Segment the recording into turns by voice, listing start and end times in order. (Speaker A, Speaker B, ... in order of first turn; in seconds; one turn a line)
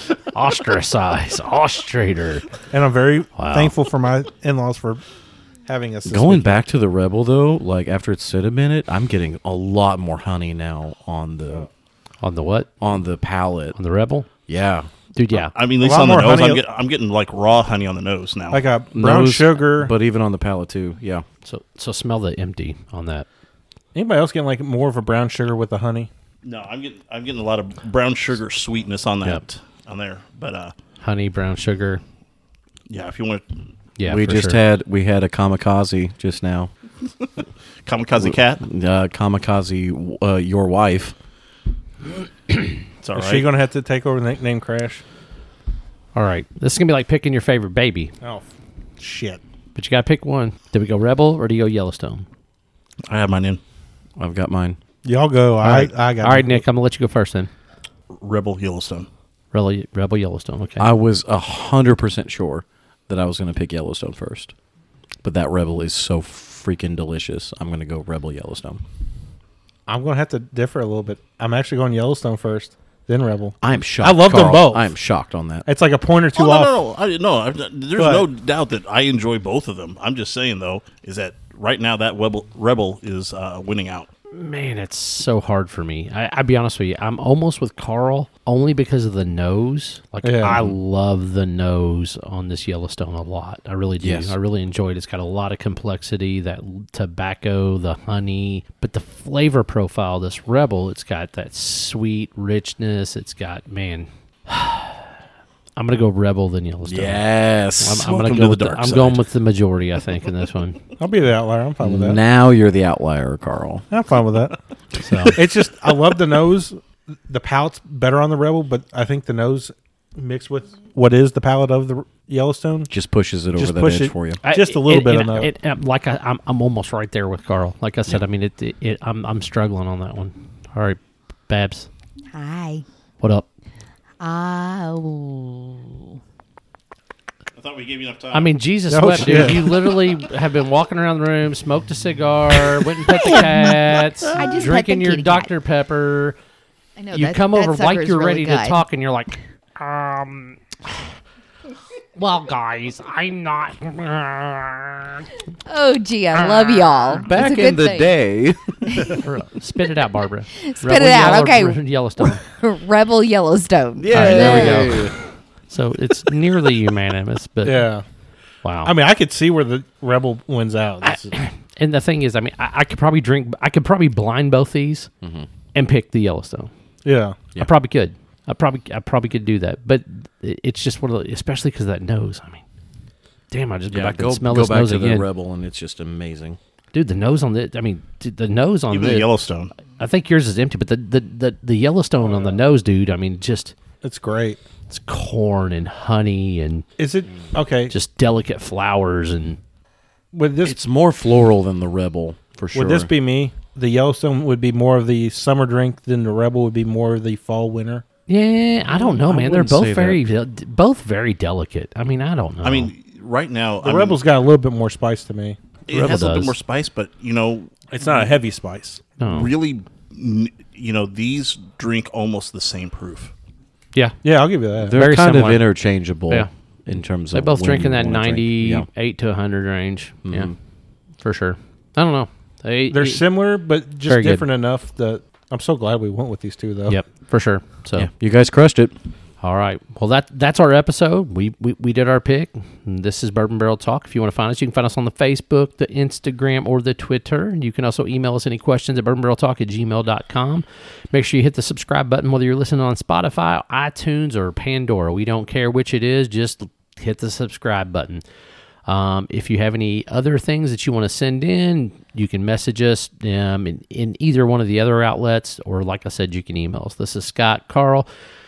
Speaker A: 0.3-2.5
Speaker B: 2.7-5.0
Speaker A: 3.4-3.7
Speaker B: 5.7-6.6
Speaker C: 6.1-11.7
Speaker A: 12.2-12.7
Speaker C: 12.8-13.8
Speaker A: 13.8-14.3
Speaker C: 14.5-14.9
Speaker A: 15.1-15.5
Speaker D: 15.3-18.6
Speaker B: 15.8-16.6
Speaker B: 18.5-19.9
Speaker C: 18.9-21.2
Speaker A: 21.4-23.3
Speaker B: 23.9-26.1
Speaker D: 26.4-30.7
Speaker A: 31.0-32.0
Speaker D: 32.9-33.4
Speaker A: 34.0-34.6
Speaker C: 34.0-36.7
Speaker D: 37.9-38.6
Speaker C: 38.2-41.1
Speaker D: 43.0-43.5
Speaker B: 43.2-45.0
Speaker A: 46.1-48.1
Speaker B: 49.0-49.4
Speaker A: 49.8-52.3
Speaker D: 53.1-53.6
Speaker C: 54.2-54.8
Speaker B: 55.0-56.6
Speaker A: 55.6-57.5
Speaker D: 58.1-59.1
Speaker A: 59.5-60.9
Speaker C: 60.8-64.5
Speaker C: 65.2-68.8
Speaker B: 69.9-74.9
Speaker C: 73.6-75.7
Speaker B: 75.7-76.7
Speaker D: 76.3-84.1
Speaker B: 78.0-78.3
Speaker A: 84.3-105.1
Speaker B: 90.2-90.6
Speaker C: 90.5-90.8
Speaker C: 94.0-94.4
Speaker A: 105.8-107.3
Speaker C: 106.8-108.1
Speaker A: 107.8-110.8
Speaker D: 107.9-109.2
Speaker B: 111.0-112.2
Speaker C: 111.8-113.8
Speaker B: 113.9-114.6
Speaker A: 115.0-115.4
Speaker B: 115.3-122.9
Speaker C: 122.9-124.4
Speaker B: 123.6-125.5
Speaker A: 124.4-131.9
Speaker E: 132.3-132.8
Speaker A: 133.2-133.5
Speaker E: 134.2-136.1
Speaker D: 137.6-138.5
Speaker A: 138.3-146.4
Speaker B: 138.9-139.7
Speaker C: 139.2-139.4
Speaker E: 143.1-145.5
Speaker E: 147.0-148.8
Speaker A: 147.1-151.1
Speaker A: 152.2-155.3
Speaker E: 155.7-158.1
Speaker A: 156.3-157.2
Speaker C: 157.2-159.2
Speaker E: 158.9-159.2
Speaker A: 159.2-162.4
Speaker E: 160.6-165.2
Speaker C: 164.0-165.2
Speaker A: 164.1-165.2
Speaker A: 165.7-167.9
Speaker B: 167.6-168.0
Speaker A: 168.6-168.9
Speaker B: 168.8-171.3
Speaker A: 171.0-175.1
Speaker C: 175.2-175.5
Speaker A: 175.7-176.7
Speaker B: 177.0-177.4
Speaker A: 177.6-182.6
Speaker A: 183.5-185.3
Speaker C: 183.9-186.6
Speaker A: 186.9-189.3
Speaker D: 188.9-189.7
Speaker A: 189.9-193.7
Speaker B: 194.0-194.6
Speaker A: 194.9-196.9
Speaker B: 197.0-197.9
Speaker A: 197.9-199.6
Speaker B: 200.3-200.8
Speaker C: 200.6-203.1
Speaker B: 202.7-208.1
Speaker A: 208.3-212.9
Speaker C: 208.9-210.2
Speaker D: 212.6-214.2
Speaker B: 213.8-215.6
Speaker D: 215.9-218.3
Speaker A: 215.9-216.6
Speaker B: 217.9-219.0
Speaker A: 219.2-219.5
Speaker D: 219.2-223.3
Speaker B: 224.2-225.0
Speaker C: 224.8-228.9
Speaker A: 224.9-225.7
Speaker A: 227.3-230.5
Speaker C: 230.2-230.6
Speaker A: 231.2-233.2
Speaker B: 232.9-237.0
Speaker A: 234.0-234.4
Speaker A: 236.9-238.1
Speaker C: 238.0-238.9
Speaker A: 239.4-258.2
Speaker A: 258.9-268.1